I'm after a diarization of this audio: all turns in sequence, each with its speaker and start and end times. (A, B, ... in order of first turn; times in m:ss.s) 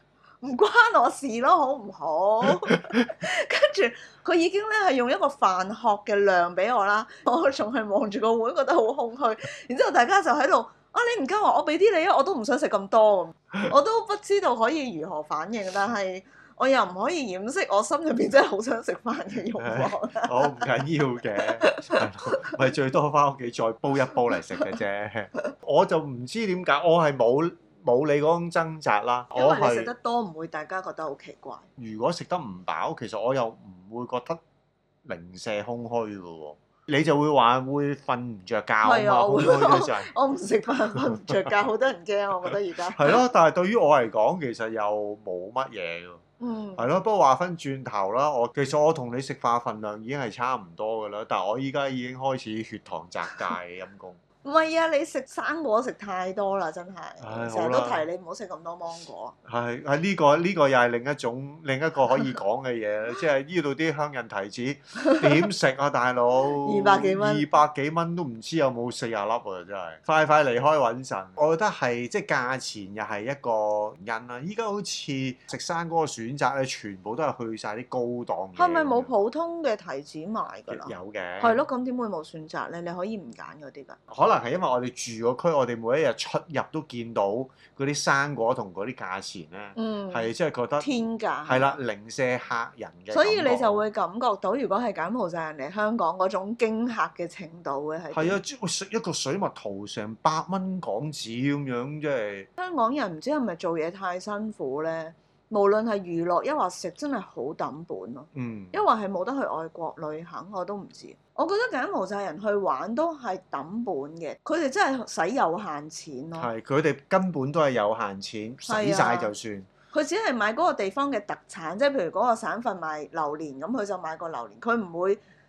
0:00.4-0:20.7 A
0:19.6-0:29.9 B
0:21.4-0:22.5 A
0:29.3-0:31.7 A
0:31.8-0:34.4 B
0:35.0-0:40.1 B
0:38.8-0:43.2 A
0:40.9-0:41.5 B
0:42.9-0:46.2 B
0:46.4-0:46.8 A
0:46.8-0:54.2 B
0:54.4-0:59.4 A
0:57.2-0:58.0 B
0:59.4-1:19.1 B
1:05.0-1:05.4 A
1:06.6-1:07.5 A
1:18.6-1:24.0 A
1:20.7-1:21.6 B
1:24.1-1:30.9 B
1:29.8-1:31.7 A
1:31.5-1:33.8 B
1:33.1-1:38.4 A
1:38.1-1:42.5 B
1:42.6-1:56.5 A
1:48.3-1:48.8 B
1:56.4-1:59.7 B
1:58.7-1:59.3 A
1:59.9-2:05.2 A